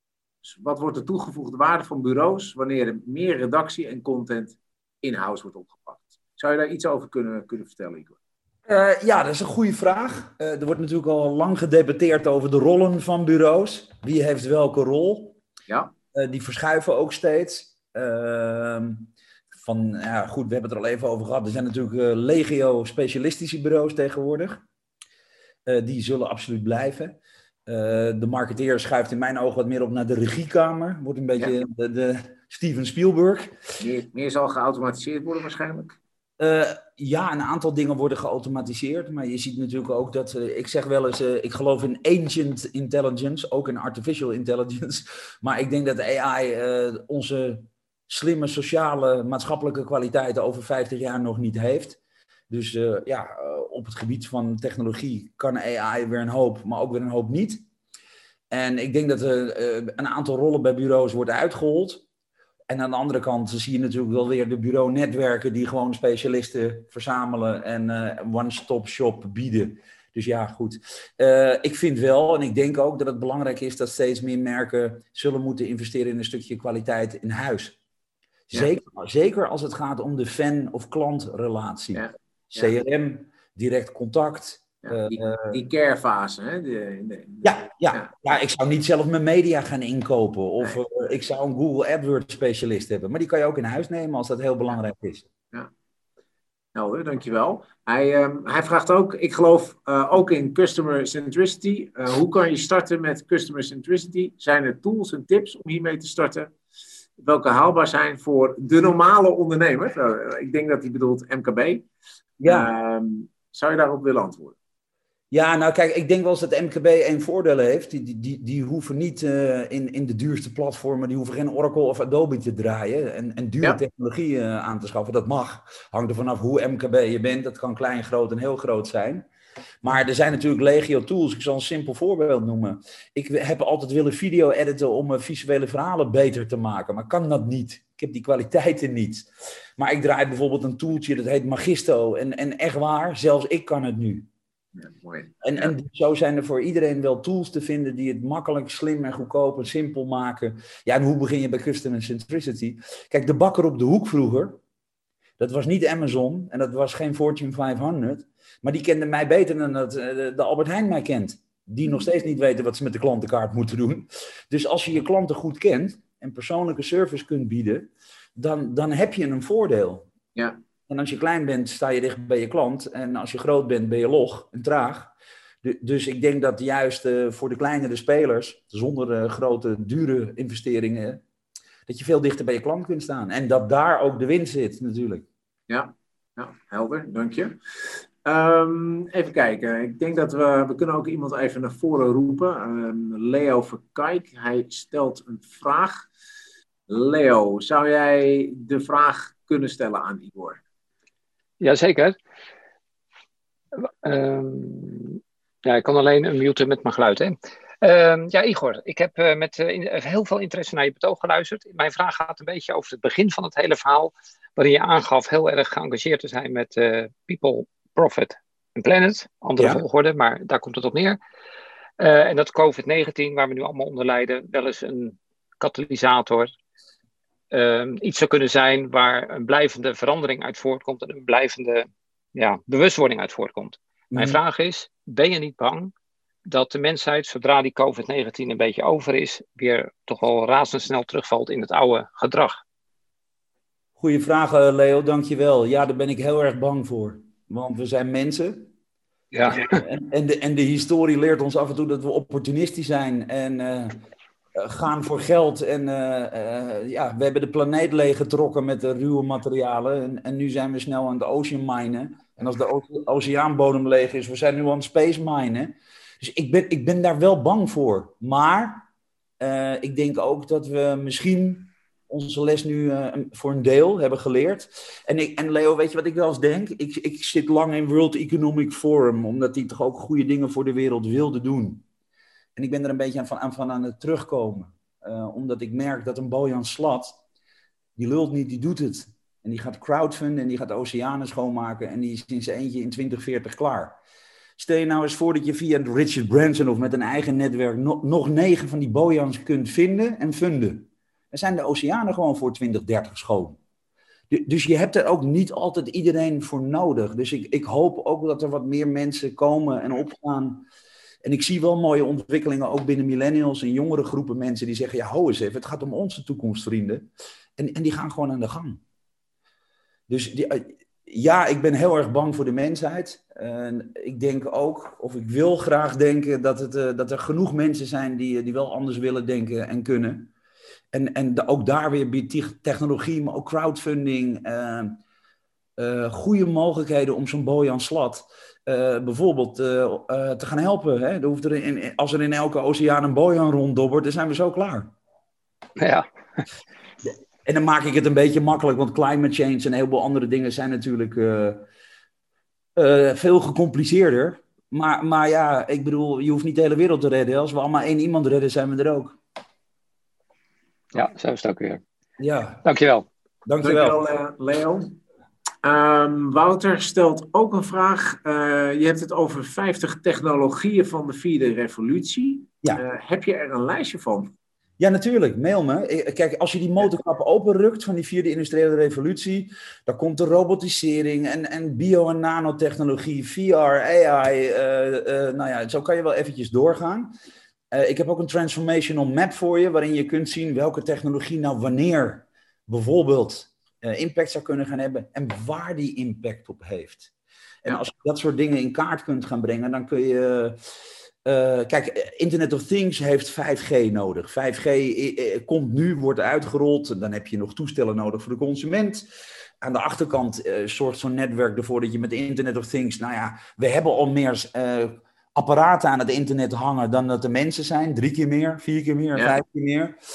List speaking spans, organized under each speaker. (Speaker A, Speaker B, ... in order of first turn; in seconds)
Speaker A: 0.4-8.2, 15.7-15.9, 33.8-36.0, 82.0-82.8, 84.8-88.1, 96.8-106.5, 107.2-111.9, 112.5-114.6, 144.8-145.7, 185.7-196.1, 196.9-200.6, 363.6-364.9, 365.6-374.3
Speaker B: 8.7-15.4, 16.1-24.6, 25.7-33.5, 36.4-52.0, 52.5-57.6, 58.5-62.0, 62.7-77.8, 78.5-85.6, 87.4-95.3, 112.4-112.7, 115.3-129.2, 129.8-144.3, 145.4-154.6, 155.4-170.1, 170.9-175.1, 175.6-181.2, 181.9-185.2, 219.6-219.8, 234.1-234.4, 244.0-248.7, 249.5-254.0, 254.6-268.9, 269.4-281.8, 282.6-287.2, 288.0-294.0, 294.6-303.6, 304.3-310.6, 311.2-318.8, 320.1-330.3, 330.9-335.0, 335.8-344.9, 347.4-351.6, 352.8-359.2, 362.2-362.6, 363.5-364.0, 374.8-387.1, 387.7-397.1, 397.6-400.6, 401.2-409.1, 409.6-420.0
Speaker C: 201.6-202.2, 204.0-221.2, 222.0-226.5, 227.5-235.9, 236.5-242.6, 249.3-249.8, 345.8-346.4, 360.9-361.8, 362.6-363.1